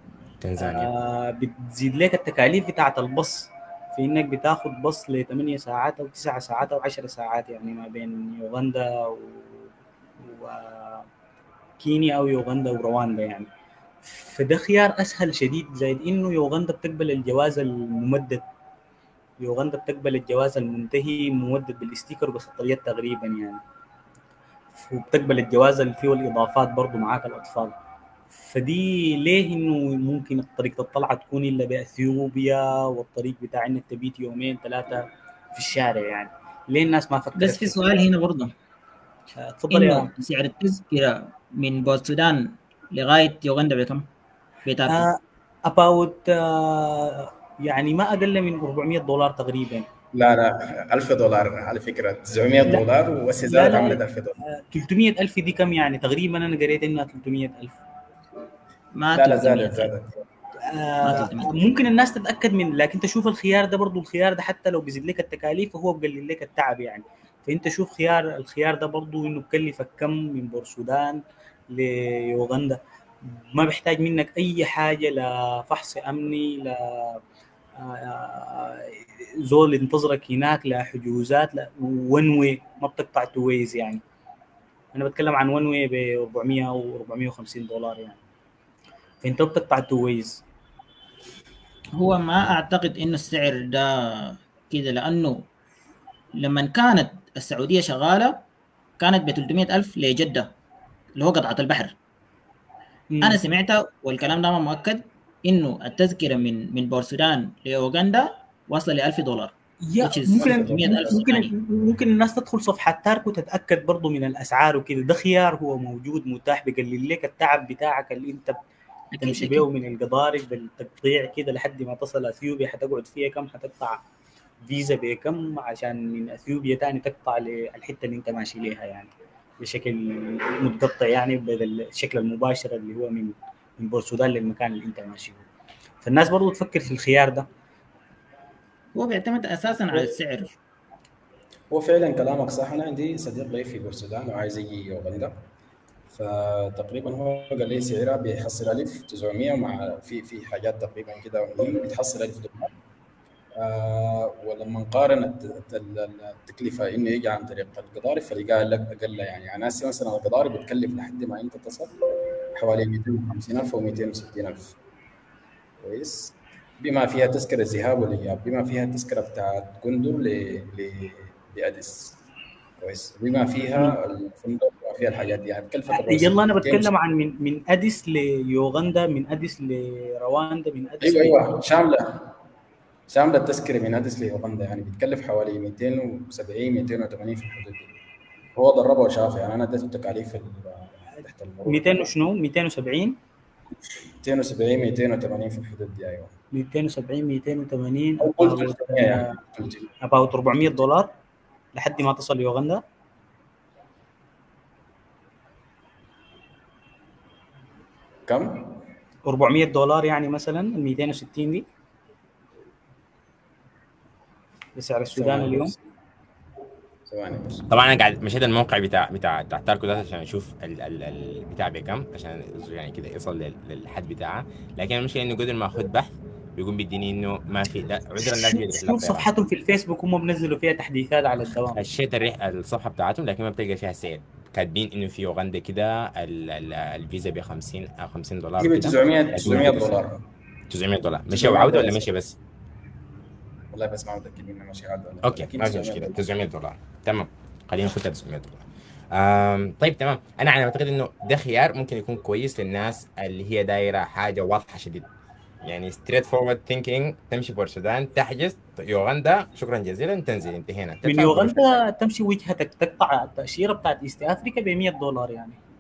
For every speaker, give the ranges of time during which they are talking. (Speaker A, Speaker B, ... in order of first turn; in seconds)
Speaker A: 0.4-0.9, 217.7-229.3, 231.7-239.9, 240.7-242.4, 245.2-255.1, 255.6-261.6
Speaker B: 0.6-11.1, 11.8-13.5, 14.1-18.4, 19.4-23.6, 24.8-27.8, 28.3-37.8, 39.4-40.1, 44.9-49.9, 53.5-54.0, 54.5-57.8, 60.7-77.2, 77.8-84.0, 84.9-88.2, 89.2-90.4, 103.1-103.4, 109.9-118.6, 119.2-124.0, 124.7-135.4, 136.0-137.5, 175.9-181.4, 191.7-193.2, 196.5-199.4, 200.0-201.1, 201.8-202.8, 209.3-211.7, 214.8-215.7, 228.2-231.9, 261.1-265.6
Speaker C: 37.4-38.5, 39.7-44.1, 44.7-45.1, 59.0-59.9, 61.0-61.6, 92.0-95.4, 96.4-98.3, 99.0-100.5, 101.2-102.0, 103.2-111.5, 119.1-119.7, 138.9-140.5
Speaker D: 50.1-54.4, 59.1-60.2, 110.4-111.1, 141.7-145.4, 146.1-152.7, 153.6-162.0, 162.6-164.8, 165.8-172.2, 172.8-176.9, 181.0-182.3, 183.1-187.9, 188.6-192.1, 194.2-196.3, 198.2-199.9, 208.3-208.8, 215.1-215.8, 217.1-217.7, 238.6-240.2, 241.3-242.1, 243.7-246.2